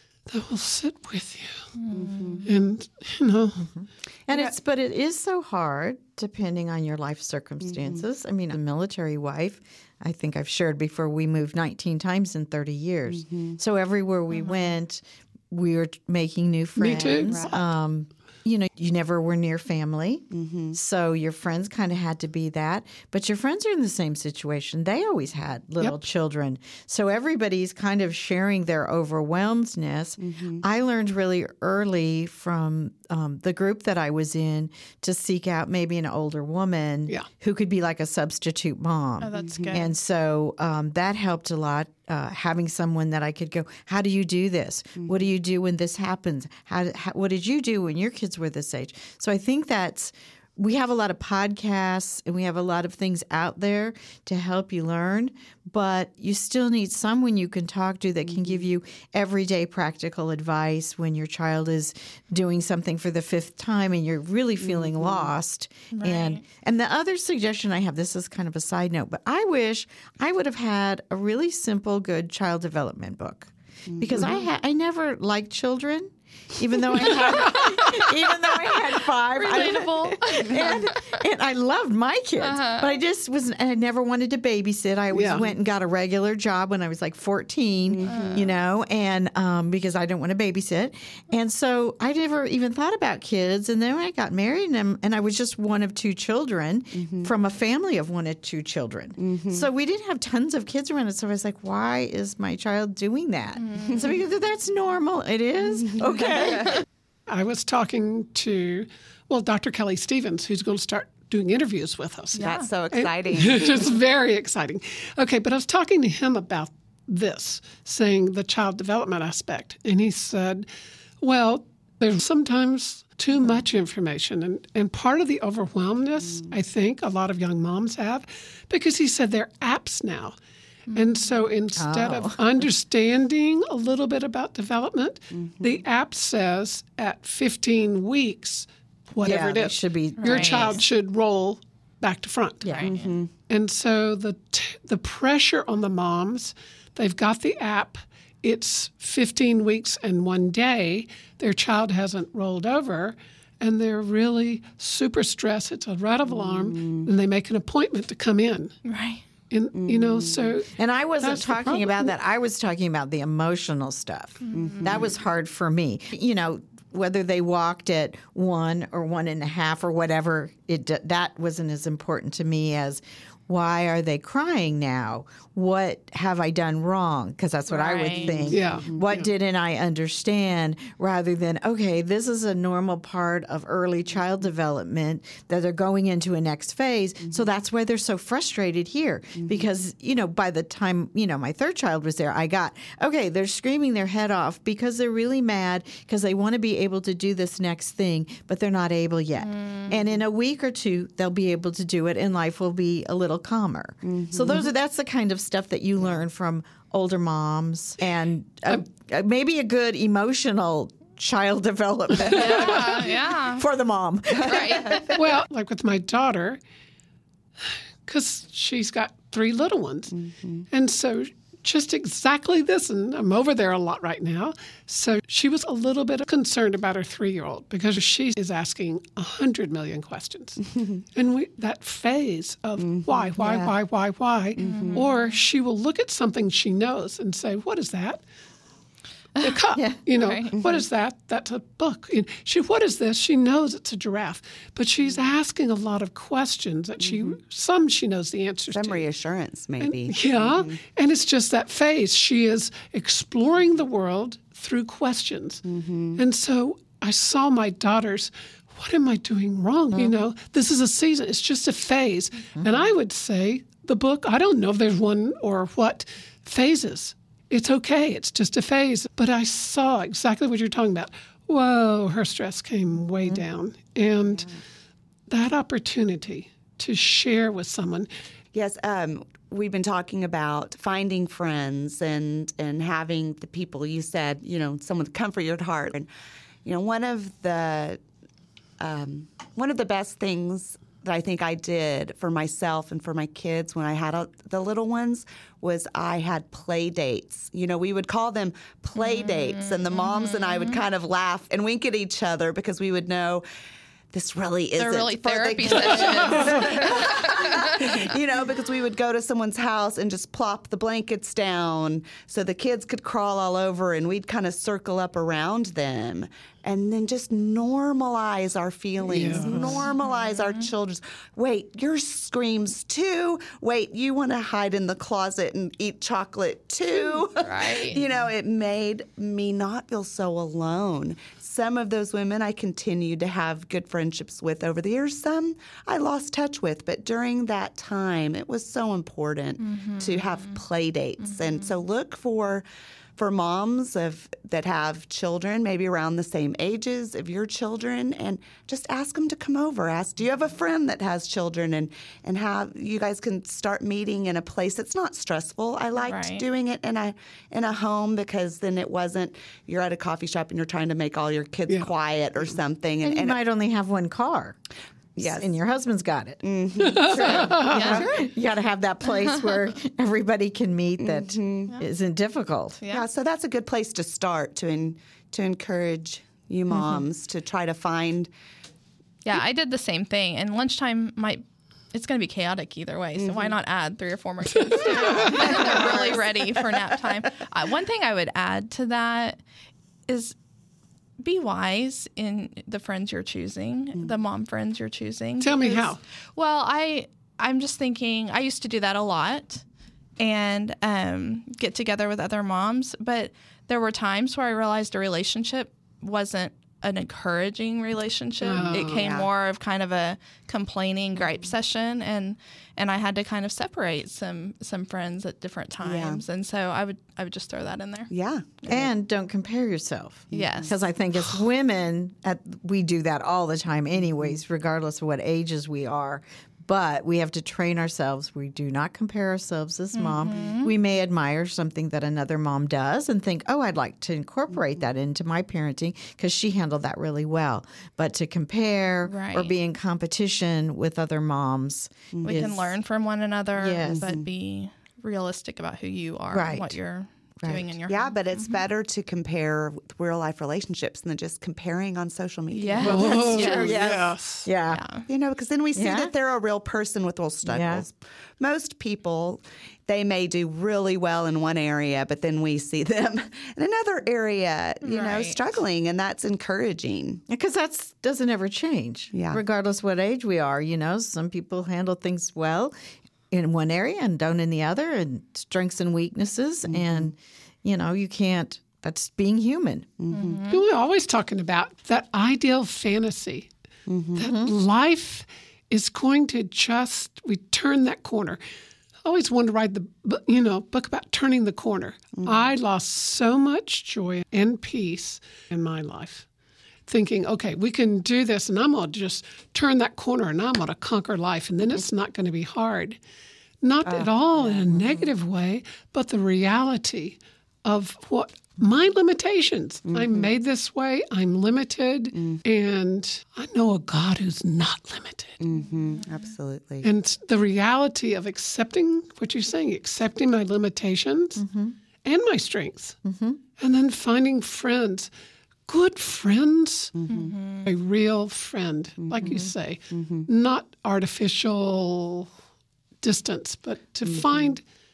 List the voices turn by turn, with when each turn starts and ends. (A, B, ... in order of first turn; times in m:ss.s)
0:00.3-0:01.7 A
0:01.7-0:02.5 B
0:01.9-0:02.4 C
0:02.4-0:03.7 A
0:03.8-1:46.8 D
0:13.2-0:13.5 C
0:16.8-0:17.6 A
0:17.2-0:17.5 C
0:20.3-0:20.8 C
0:30.2-0:30.6 C
0:39.2-0:39.9 B
1:04.8-1:05.1 C
1:05.9-1:06.4 B
1:13.9-1:14.3 C
1:17.3-1:17.7 A
1:19.3-1:21.2 B
1:22.4-1:22.9 B
1:25.1-1:25.4 A
1:27.9-1:28.4 C
1:28.0-1:28.5 B
1:37.0-1:37.3 C
1:39.2-1:39.6 C
1:43.7-1:44.0 B
1:45.9-1:46.8 C
1:47.3-2:00.7 A
1:52.4-1:52.7 B
1:52.4-1:53.9 C
2:01.2-2:10.4 A
2:10.9-2:11.2 B
2:10.9-2:22.7 A
2:11.8-2:12.4 D
2:15.4-2:15.7 C
2:19.2-2:20.7 D
2:20.2-2:20.8 B
2:22.6-2:22.9 D
2:22.6-2:23.1 B
2:22.8-2:23.3 C
2:23.5-2:38.7 A
2:36.3-2:37.1 C
2:38.8-2:39.2 B
2:39.5-2:42.1 A
2:39.7-2:40.6 C
2:40.8-3:35.3 D
2:44.5-2:44.8 B
2:44.5-2:45.1 C
2:57.7-2:58.6 B
2:58.3-2:59.0 C
2:58.5-2:59.3 A
3:19.6-3:19.8 B
3:24.0-3:24.6 C
3:32.2-3:33.0 A
3:32.3-3:33.6 B
3:34.4-3:35.1 B
3:35.1-3:36.6 A
3:38.0-3:40.1 A
3:40.2-3:40.6 C
3:40.7-3:58.2 A
3:52.8-3:53.7 C
3:54.6-3:55.0 C
3:54.6-3:55.3 B
3:59.4-4:09.0 A
4:00.1-4:00.6 B
4:07.0-4:07.3 C
4:08.7-4:10.8 C
4:09.8-4:15.6 A
4:15.6-4:16.2 C
4:16.2-4:34.5 A
4:35.3-4:38.1 A
4:38.5-4:46.1 C
4:46.6-4:48.0 C
4:48.8-5:03.4 C
4:59.0-5:00.8 B
5:04.1-5:42.6 C
5:04.8-5:08.1 B
5:19.0-5:19.8 A
5:19.4-5:19.8 D
5:20.0-5:20.6 B
5:27.4-5:28.0 B
5:39.6-5:40.6 B
5:41.2-5:41.7 B
5:43.2-6:03.4 C
5:56.0-5:56.4 B
6:03.0-6:04.6 D
6:05.2-6:05.5 C
6:05.2-6:06.4 D
6:06.4-6:08.2 C
6:06.8-6:07.9 A
6:07.2-6:12.8 D
6:07.7-6:08.0 B
6:11.0-6:11.7 C
6:12.9-6:18.3 C
6:19.2-6:29.4 B
6:23.2-6:23.5 C
6:24.7-6:25.6 A
6:24.9-6:26.2 C
6:30.1-6:30.4 B
6:31.2-6:39.6 B
6:35.4-6:36.0 A
6:40.2-6:58.1 B
6:48.4-6:49.0 A
6:48.5-6:49.3 C
6:55.8-6:56.2 C
6:58.1-6:58.5 C
6:58.6-6:58.9 B
6:58.7-7:22.7 D
7:00.3-7:00.7 C
7:00.3-7:00.8 B
7:09.9-7:10.7 B
7:19.1-7:19.5 B
7:22.1-7:22.5 C
7:22.2-7:28.6 B
7:23.6-7:24.2 D
7:23.8-7:24.2 C
7:26.3-7:26.7 D
7:27.9-7:34.1 C
7:32.5-7:33.7 B
7:32.8-7:34.5 A
7:33.0-7:34.8 D
7:34.7-7:35.0 B
7:35.1-7:47.2 C
7:35.8-7:36.1 D
7:37.4-7:37.8 D
7:44.8-7:45.4 B
7:47.3-7:52.7 D
7:49.1-7:49.4 C
7:53.3-7:59.9 D
7:56.7-7:57.0 C
8:00.0-8:00.4 C
8:00.1-8:00.6 B
8:00.5-8:03.5 A
8:03.9-8:04.2 C
8:04.1-8:08.4 A
8:04.2-8:04.5 D
8:09.0-8:16.2 A
8:12.2-8:12.4 C
8:16.9-8:23.0 A
8:23.6-8:35.4 A
8:23.8-8:25.0 C
8:29.9-8:30.3 C
8:32.1-8:32.4 C
8:35.4-8:36.9 C
8:36.8-8:41.4 A
8:41.4-8:41.7 D
8:42.0-8:43.0 A
8:43.0-8:43.4 D
8:43.6-8:45.1 A
8:45.7-8:46.9 A
8:47.0-8:47.3 C
8:47.1-8:47.7 B
8:47.6-8:52.3 A
8:49.0-8:49.4 C
8:49.2-8:49.5 D
8:49.9-8:50.3 C
8:53.0-8:54.6 A
8:54.1-8:54.4 C